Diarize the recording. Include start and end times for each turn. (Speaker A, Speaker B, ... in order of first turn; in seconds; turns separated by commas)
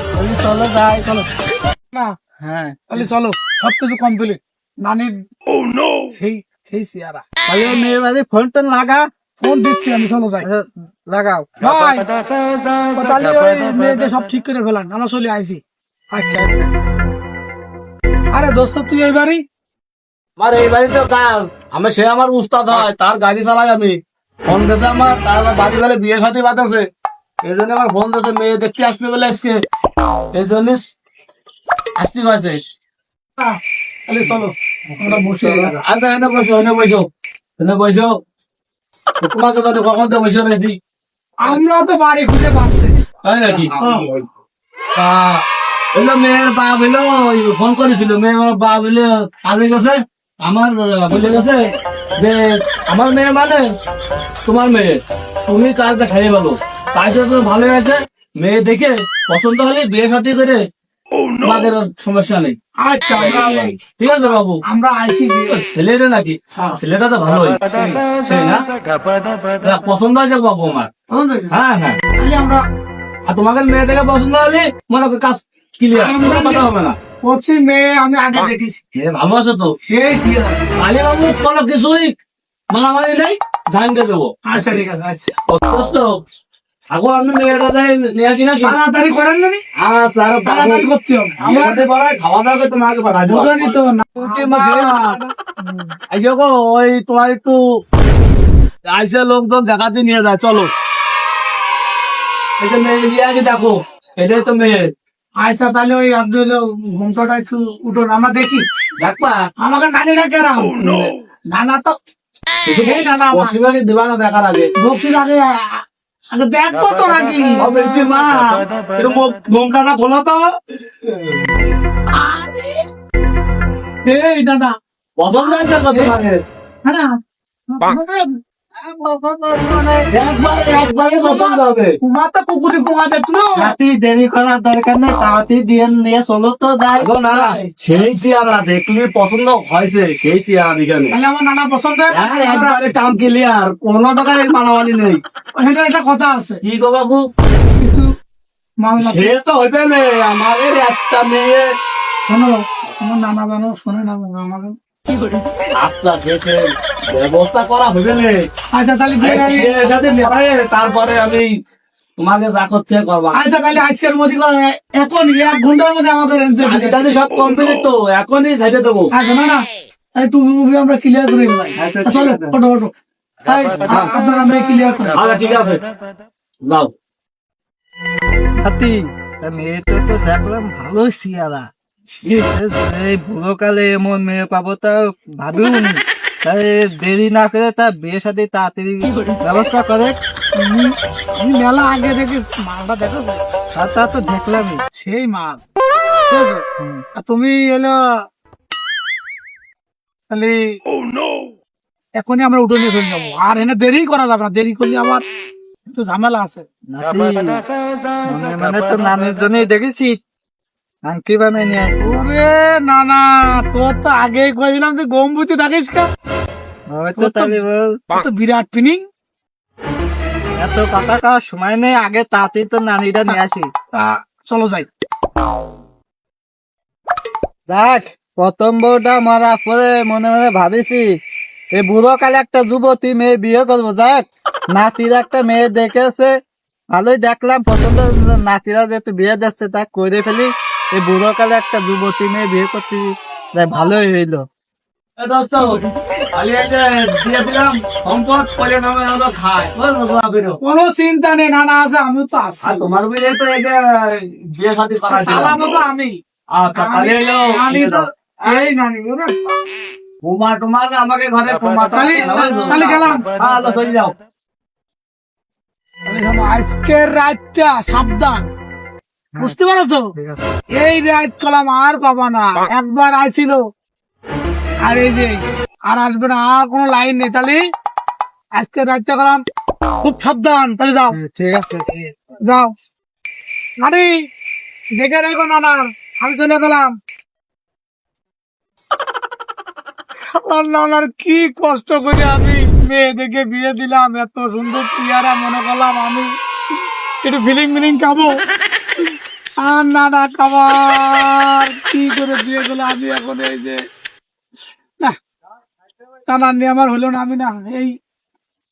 Speaker A: 0.1-1.1, Speaker A: 2.4-3.1, Speaker B: 2.9-5.2, Speaker B: 6.1-7.2, Speaker A: 7.5-9.1, Speaker B: 9.4-10.5, Speaker A: 10.4-11.5, Speaker B: 11.6-12.1, Speaker B: 12.9-16.9, Speaker B: 18.3-19.4, Speaker C: 20.4-26.9, Speaker C: 27.4-29.6, Speaker C: 30.3-30.8, Speaker C: 32.0-32.6, Speaker B: 33.4-35.8, Speaker A: 34.9-35.7, Speaker C: 35.8-38.2, Speaker C: 39.2-40.8, Speaker B: 41.4-43.0, Speaker C: 43.2-43.8, Speaker B: 43.8-44.2, Speaker C: 45.0-45.4, Speaker C: 45.9-51.6, Speaker C: 52.2-53.6, Speaker C: 54.5-60.6, Speaker C: 61.4-62.5, Speaker B: 62.8-63.8, Speaker C: 63.2-64.6, Speaker B: 64.7-65.6, Speaker C: 65.5-68.7, Speaker B: 66.5-66.8, Speaker C: 69.6-70.9, Speaker B: 71.1-71.5, Speaker C: 71.5-72.0, Speaker B: 72.2-72.6, Speaker C: 73.3-77.0, Speaker B: 75.9-76.7, Speaker B: 77.2-78.8, Speaker C: 78.3-79.7, Speaker B: 79.8-80.6, Speaker C: 80.8-82.2, Speaker C: 82.7-84.8, Speaker B: 84.5-85.4, Speaker C: 85.5-86.1, Speaker C: 86.9-88.8, Speaker B: 88.6-89.6, Speaker C: 89.8-90.9, Speaker B: 90.5-91.9, Speaker C: 91.4-95.2, Speaker B: 93.3-96.0, Speaker C: 96.1-97.6, Speaker C: 98.9-100.7, Speaker C: 102.6-104.9, Speaker B: 105.4-108.7, Speaker C: 109.0-109.5, Speaker B: 109.6-112.0, Speaker C: 112.7-114.7, Speaker B: 112.8-113.6, Speaker B: 114.8-117.7, Speaker C: 117.6-120.5, Speaker C: 121.0-121.5, Speaker B: 122.1-122.8, Speaker B: 124.0-124.8, Speaker C: 125.2-126.4, Speaker B: 125.3-126.1, Speaker B: 126.8-127.2, Speaker B: 127.7-130.1, Speaker C: 130.1-132.0, Speaker B: 131.2-133.8, Speaker A: 133.6-137.6, Speaker C: 137.0-141.2, Speaker B: 141.1-142.8, Speaker C: 142.1-145.2, Speaker B: 145.6-146.6, Speaker C: 146.6-147.3, Speaker B: 147.8-148.1, Speaker B: 148.8-149.3, Speaker C: 149.0-151.7, Speaker B: 152.2-155.7, Speaker C: 155.7-158.4, Speaker B: 158.7-159.9, Speaker C: 159.2-161.5, Speaker C: 162.2-163.4, Speaker B: 163.3-167.1, Speaker C: 166.6-169.1, Speaker B: 169.1-172.9, Speaker A: 171.8-172.6, Speaker B: 173.4-175.3, Speaker A: 173.8-174.1, Speaker C: 175.1-175.8, Speaker C: 176.7-176.9, Speaker A: 178.6-181.7, Speaker B: 182.1-182.5, Speaker A: 182.5-190.2, Speaker B: 189.1-189.4, Speaker B: 190.6-193.4, Speaker A: 193.8-194.8, Speaker B: 194.9-195.6, Speaker B: 196.3-198.0, Speaker A: 196.8-197.0, Speaker B: 200.3-200.7, Speaker B: 202.2-205.2, Speaker B: 205.9-206.7, Speaker A: 206.9-207.6, Speaker A: 208.2-210.2, Speaker A: 211.1-212.2, Speaker B: 212.0-216.1, Speaker A: 216.9-218.0, Speaker B: 217.2-217.6, Speaker B: 218.1-219.1, Speaker A: 220.6-223.7, Speaker B: 223.9-224.9, Speaker A: 227.7-231.1, Speaker A: 231.8-236.4, Speaker A: 236.9-244.4, Speaker C: 245.2-245.8, Speaker C: 246.3-250.6, Speaker B: 250.6-252.8, Speaker C: 252.6-255.8, Speaker B: 255.1-256.2, Speaker C: 256.5-258.7, Speaker B: 256.7-259.6, Speaker C: 260.2-264.1, Speaker B: 261.9-263.2, Speaker B: 266.1-268.4, Speaker B: 269.4-270.1, Speaker A: 270.2-270.5, Speaker B: 270.7-273.6, Speaker B: 274.9-277.6, Speaker B: 278.6-279.4, Speaker B: 280.0-281.2, Speaker A: 281.1-281.9, Speaker B: 282.4-282.7, Speaker B: 283.8-284.1, Speaker B: 285.0-286.9, Speaker B: 290.3-296.3, Speaker B: 297.2-298.4, Speaker B: 299.6-303.8, Speaker B: 306.3-307.9